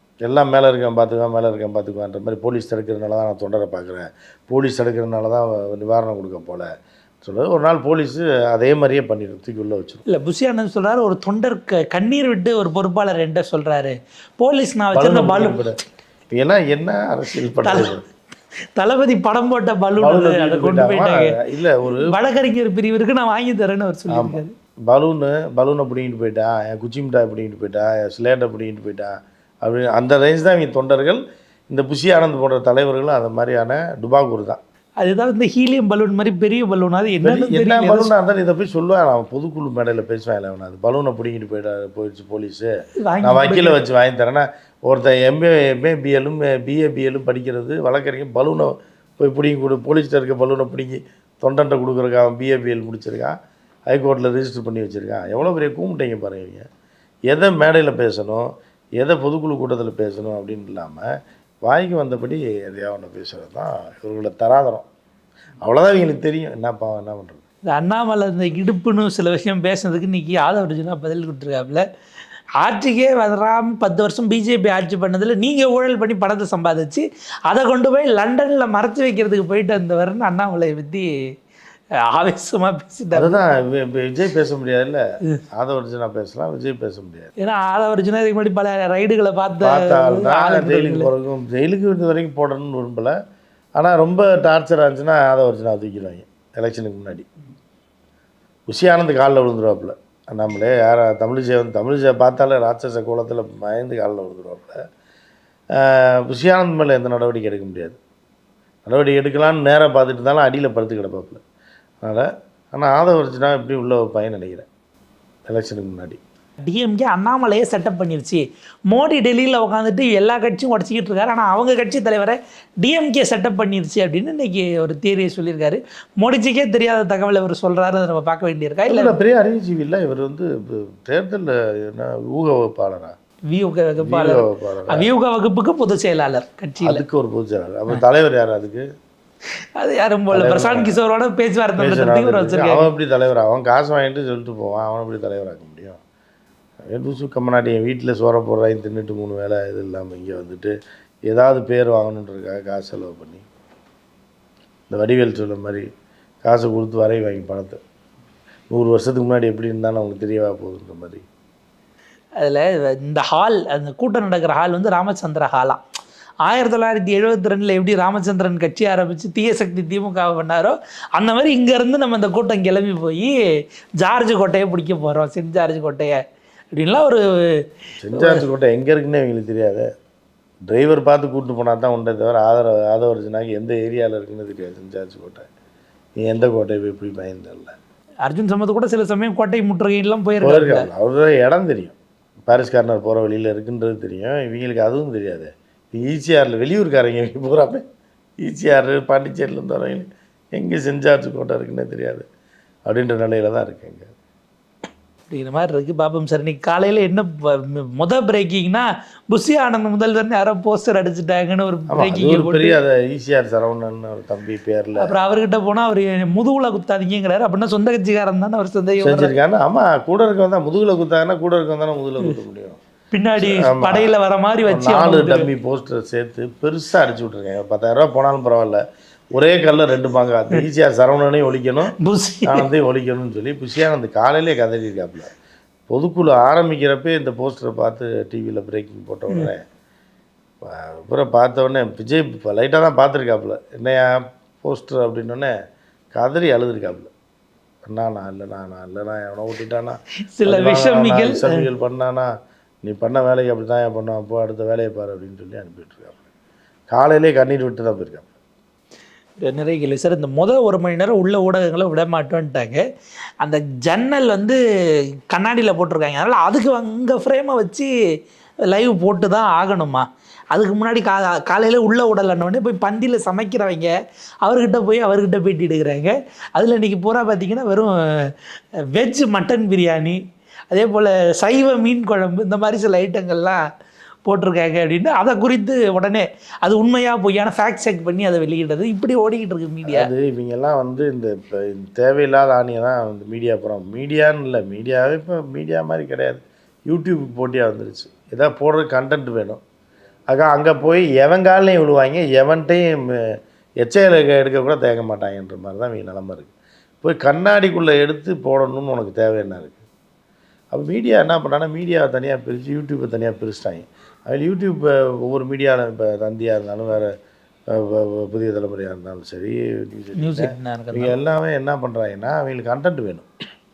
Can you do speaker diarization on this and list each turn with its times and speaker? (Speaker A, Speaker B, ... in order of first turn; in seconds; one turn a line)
Speaker A: 0.2-6.7
Speaker A: 7.2-10.0
Speaker B: 10.1-15.6
Speaker A: 14.9-15.8
Speaker A: 16.3-18.1
Speaker B: 17.6-17.9
Speaker B: 18.8-24.5
Speaker A: 20.0-22.1
Speaker A: 24.1-29.1
Speaker A: 29.6-34.6
Speaker B: 35.0-38.1
Speaker A: 37.2-42.7
Speaker B: 43.1-43.8
Speaker A: 43.2-53.3
Speaker A: 53.9-56.7
Speaker A: 57.3-58.5
Speaker A: 59.0-61.1
Speaker A: 61.6-64.9
Speaker A: 65.6-67.4
Speaker B: 67.7-71.8
Speaker B: 72.6-81.1
Speaker B: 82.1-83.4
Speaker A: 83.1-85.0
Speaker A: 85.5-87.3
Speaker B: 87.4-91.1
Speaker A: 89.6-93.2
Speaker A: 93.8-97.3
Speaker A: 98.7-104.8
Speaker A: 105.8-108.0
Speaker A: 108.9-111.4
Speaker A: 112.0-114.7
Speaker A: 115.5-116.2
Speaker B: 116.7-129.2
Speaker A: 128.9-133.2
Speaker B: 133.5-137.0
Speaker A: 134.0-135.1
Speaker A: 136.8-138.8
Speaker B: 139.8-142.9
Speaker A: 140.3-141.0
Speaker A: 141.8-146.0
Speaker A: 146.9-150.7
Speaker A: 151.3-153.4
Speaker A: 154.9-155.9
Speaker A: 156.4-157.8
Speaker A: 158.7-161.2
Speaker B: 162.4-165.8
Speaker B: 166.4-173.3
Speaker B: 174.0-176.2
Speaker B: 176.8-177.2
Speaker A: 178.0-179.9
Speaker B: 178.1-178.4
Speaker A: 180.7-185.5
Speaker A: 186.2-187.7
Speaker B: 188.2-190.9
Speaker A: 190.4-197.8
Speaker A: 198.4-202.2
Speaker A: 202.9-204.1
Speaker B: 205.3-212.8
Speaker A: 211.9-215.1
Speaker B: 215.0-219.3
Speaker A: 219.0-222.8
Speaker B: 223.1-225.5
Speaker A: 223.4-224.1
Speaker A: 224.7-228.8
Speaker A: 229.3-231.9
Speaker B: 232.0-232.7
Speaker A: 232.5-235.3
Speaker A: 235.9-239.6
Speaker A: 240.6-245.5
Speaker A: 246.1-247.1
Speaker A: 247.8-252.3
Speaker B: 250.4-251.6
Speaker A: 252.8-256.2
Speaker A: 256.9-258.3
Speaker B: 259.4-262.8
Speaker B: 263.4-264.6
Speaker B: 265.3-267.9
Speaker B: 268.6-273.9
Speaker B: 274.4-278.3
Speaker B: 278.9-280.2
Speaker B: 280.7-283.6
Speaker B: 284.3-290.1
Speaker A: 289.9-299.6
Speaker A: 300.3-303.3
Speaker A: 303.8-306.5
Speaker A: 307.0-309.8
Speaker A: 310.7-317.1
Speaker A: 317.7-323.3
Speaker B: 320.2-321.2